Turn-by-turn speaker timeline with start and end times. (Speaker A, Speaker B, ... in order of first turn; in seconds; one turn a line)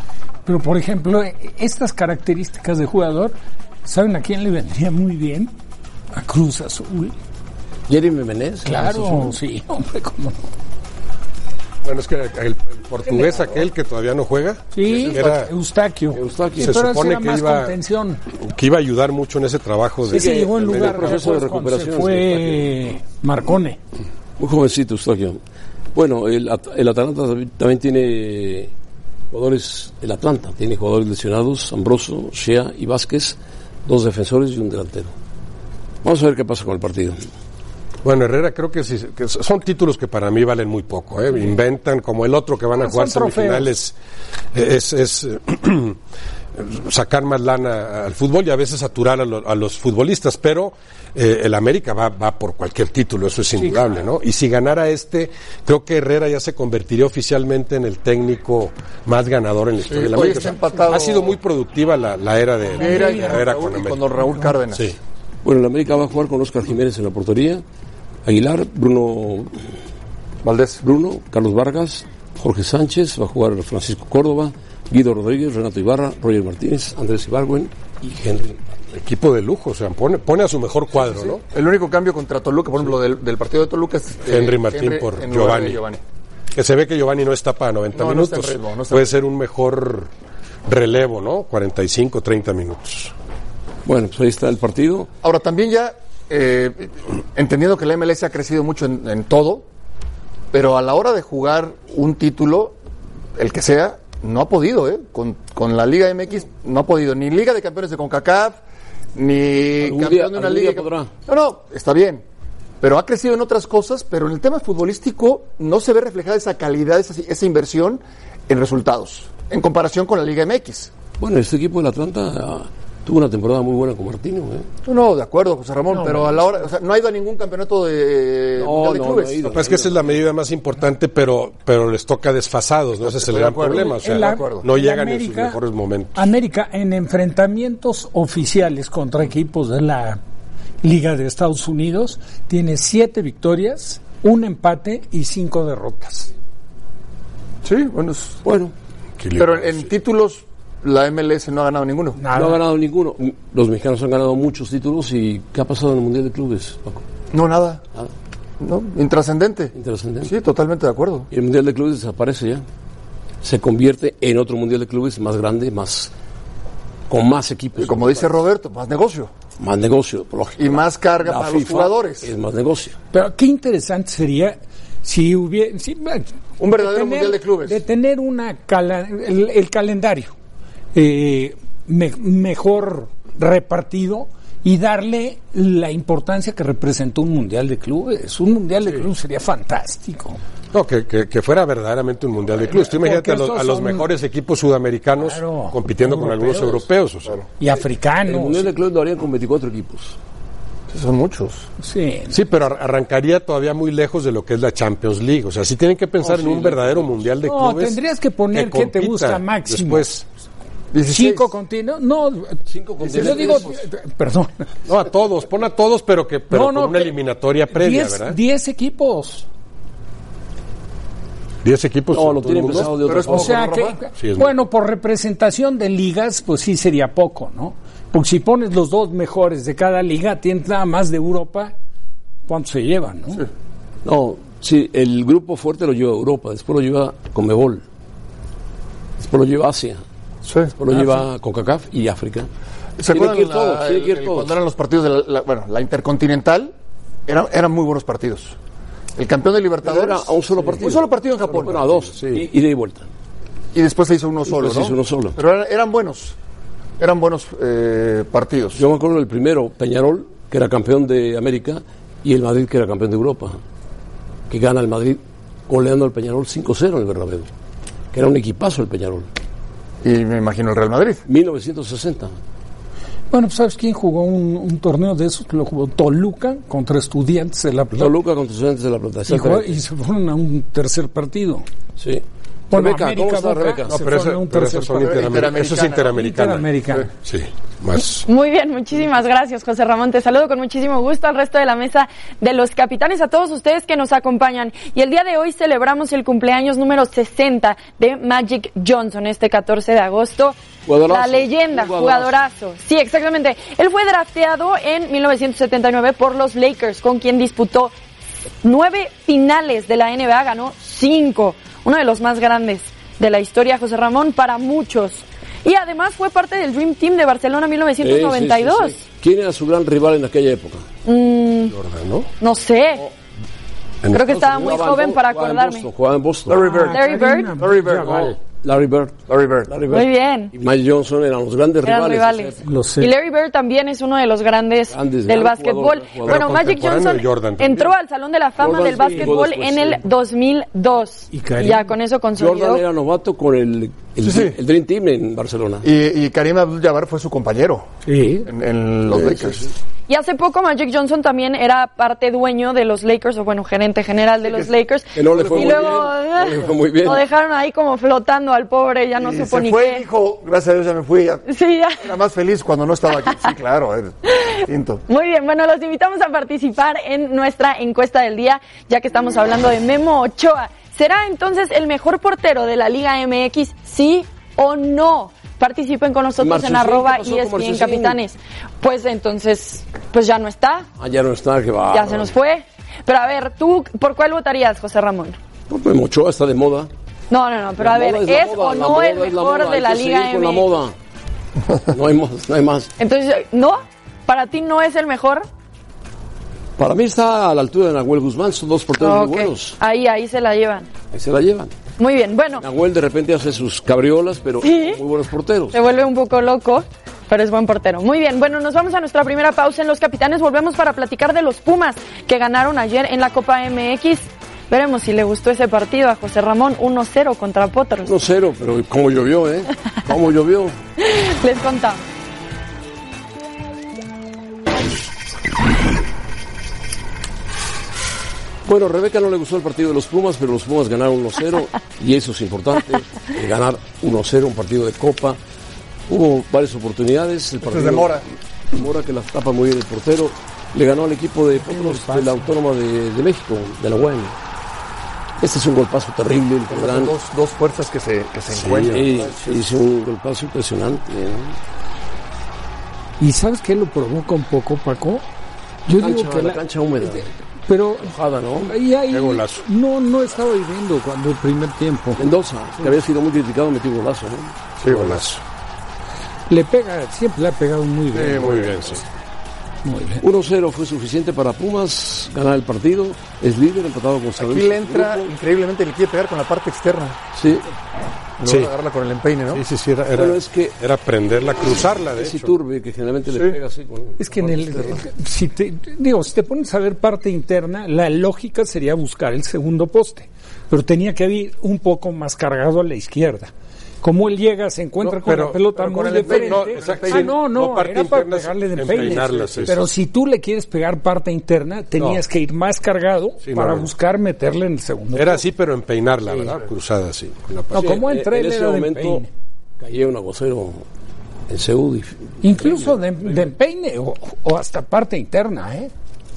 Speaker A: 0.5-5.5
Speaker A: 6.1-7.1
Speaker B: 7.9-9.4
Speaker A: 8.6-10.4
Speaker C: 11.8-15.5
Speaker A: 13.1-13.5
Speaker A: 14.7-18.2
Speaker B: 16.1-16.8
Speaker C: 16.6-17.7
Speaker C: 18.3-20.8
Speaker A: 20.0-23.8
Speaker B: 20.1-22.7
Speaker B: 24.4-25.4
Speaker B: 25.9-28.7
Speaker B: 29.3-35.1
Speaker B: 36.0-37.2
Speaker C: 38.0-44.0
Speaker A: 42.8-43.7
Speaker C: 44.5-46.0
Speaker C: 46.5-64.2
Speaker A: 53.6-53.9
Speaker D: 59.9-61.4
Speaker A: 62.8-63.5
Speaker D: 62.8-65.0
Speaker B: 65.4-67.6
Speaker B: 68.2-69.5
Speaker D: 70.4-70.8
Speaker B: 70.8-78.6
Speaker C: 78.9-81.4
Speaker D: 81.5-86.0
Speaker C: 84.2-85.8
Speaker C: 86.5-90.1
Speaker D: 87.9-89.2
Speaker C: 90.7-93.1
Speaker B: 93.8-95.1
Speaker D: 95.2-99.6
Speaker D: 100.5-102.8
Speaker D: 103.4-108.6
Speaker D: 109.1-112.2
Speaker B: 109.8-111.1
Speaker D: 112.8-120.9
Speaker B: 121.2-124.7
Speaker D: 124.8-129.6
Speaker A: 125.9-126.6
Speaker B: 128.6-130.1
Speaker C: 129.5-136.3
Speaker D: 133.0-134.6
Speaker A: 133.8-135.6
Speaker A: 136.1-140.2
Speaker A: 140.8-146.3
Speaker D: 147.6-148.4
Speaker B: 148.4-148.7
Speaker C: 149.2-149.9
Speaker D: 149.3-152.2
Speaker A: 152.2-152.6
Speaker B: 152.3-157.0
Speaker D: 157.3-157.8
Speaker D: 158.6-159.7
Speaker B: 159.7-160.3
Speaker D: 160.2-161.3
Speaker B: 161.3-162.7
Speaker B: 163.4-166.1
Speaker B: 167.1-168.3
Speaker D: 167.8-169.3
Speaker B: 169.6-172.9
Speaker D: 170.6-172.3
Speaker A: 173.1-180.3
Speaker D: 176.6-177.8
Speaker A: 180.9-190.4
Speaker C: 190.7-197.4
Speaker A: 192.7-194.1
Speaker A: 195.2-196.8
Speaker A: 197.6-198.7
Speaker B: 198.3-200.2
Speaker D: 200.9-201.7
Speaker A: 201.8-202.3
Speaker C: 202.3-208.0
Speaker B: 206.2-207.2
Speaker A: 207.4-210.1
Speaker C: 208.5-210.2
Speaker D: 210.9-211.5
Speaker A: 211.1-214.7
Speaker B: 212.7-213.7
Speaker D: 213.0-213.7
Speaker C: 214.9-218.4
Speaker A: 216.5-217.1
Speaker A: 217.7-219.4
Speaker C: 221.6-222.9
Speaker B: 222.1-223.7
Speaker D: 223.0-224.0
Speaker A: 223.3-231.7
Speaker C: 224.2-224.5
Speaker A: 232.5-233.4
Speaker B: 234.0-237.8
Speaker B: 239.2-240.0
Speaker D: 240.4-240.7
Speaker B: 240.8-242.5
Speaker D: 243.0-246.7
Speaker B: 243.1-244.5
Speaker D: 247.3-248.6
Speaker D: 249.2-251.9
Speaker B: 249.8-253.1
Speaker C: 252.1-252.4
Speaker D: 253.7-256.3
Speaker B: 254.5-255.4
Speaker D: 257.0-258.8
Speaker B: 258.8-263.6
Speaker B: 264.5-267.5
Speaker B: 268.1-269.3
Speaker D: 270.0-271.2
Speaker B: 271.3-272.4
Speaker A: 273.3-278.1
Speaker B: 277.9-279.8
Speaker A: 279.3-281.6
Speaker B: 282.0-283.9
Speaker A: 282.7-285.4
Speaker C: 283.9-286.7
Speaker D: 284.9-286.1
Speaker A: 286.1-287.1
Speaker C: 287.2-288.2
Speaker E: 288.2-307.9
Speaker B: 300.8-302.4
Speaker E: 308.6-319.0
Speaker B: 318.0-320.9
Speaker E: 321.0-321.8
Speaker C: 321.7-322.3
Speaker E: 322.4-323.1
Speaker E: 324.1-325.9
Speaker B: 324.1-326.6
Speaker D: 326.5-327.0
Speaker A: 326.5-328.4
Speaker E: 326.8-327.5
Speaker D: 327.6-328.3
Speaker B: 327.9-332.6
Speaker D: 329.3-329.7
Speaker E: 329.9-330.5
Speaker E: 331.8-342.8
Speaker A: 332.6-333.1
Speaker B: 334.9-336.7
Speaker C: 336.2-337.9
Speaker B: 338.6-340.1
Speaker A: 338.7-339.4
Speaker A: 341.3-341.9
Speaker B: 342.3-345.9
Speaker D: 344.2-344.6
Speaker D: 345.8-347.9
Speaker A: 348.0-348.5
Speaker D: 348.4-349.7
Speaker B: 349.1-349.7
Speaker E: 350.1-360.0
Speaker D: 354.4-356.1
Speaker B: 355.1-357.2
Speaker D: 359.1-361.4
Speaker E: 361.5-362.1
Speaker D: 362.0-365.0
Speaker E: 364.3-364.6
Speaker E: 365.1-380.9
Speaker B: 376.4-378.2
Speaker B: 381.0-382.3
Speaker E: 381.9-385.4
Speaker B: 385.7-386.9
Speaker E: 387.3-390.7
Speaker B: 387.8-390.9
Speaker B: 391.9-392.9
Speaker E: 393.0-395.4
Speaker B: 396.8-399.8
Speaker E: 399.0-400.9
Speaker B: 401.1-401.7
Speaker E: 402.0-402.6
Speaker B: 402.6-405.8
Speaker E: 404.6-405.0
Speaker E: 405.7-418.1
Speaker B: 418.0-420.8
Speaker E: 421.0-422.0
Speaker B: 428.6-435.4
Speaker B: 436.1-444.4
Speaker D: 437.6-438.2
Speaker A: 441.6-442.5
Speaker B: 445.4-447.1
Speaker D: 446.7-449.6
Speaker C: 448.5-449.1
Speaker B: 448.9-451.6
Speaker A: 453.2-455.2
Speaker A: 455.9-462.2
Speaker B: 456.0-457.3
Speaker B: 458.0-458.8
Speaker C: 459.1-459.6
Speaker B: 462.1-464.5
Speaker D: 464.8-465.2
Speaker C: 464.9-465.4
Speaker A: 466.5-468.6
Speaker D: 468.1-468.9
Speaker C: 468.3-469.0
Speaker A: 469.8-470.2
Speaker B: 470.2-475.3
Speaker D: 474.4-477.2
Speaker B: 477.3-477.7
Speaker D: 478.4-479.6
Speaker C: 478.4-478.7
Speaker C: 479.5-482.6
Speaker B: 480.1-480.7
Speaker B: 482.1-485.0
Speaker D: 483.3-483.6
Speaker A: 484.2-493.5
Speaker A: 494.0-505.4
Speaker C: 495.0-495.6
Speaker D: 495.7-497.3
Speaker C: 496.2-499.8
Speaker D: 499.3-499.7
Speaker C: 503.4-503.9
Speaker C: 505.1-508.0
Speaker A: 507.7-509.3
Speaker B: 507.7-509.2
Speaker B: 509.8-510.8
Speaker B: 511.5-513.4
Speaker A: 512.4-515.9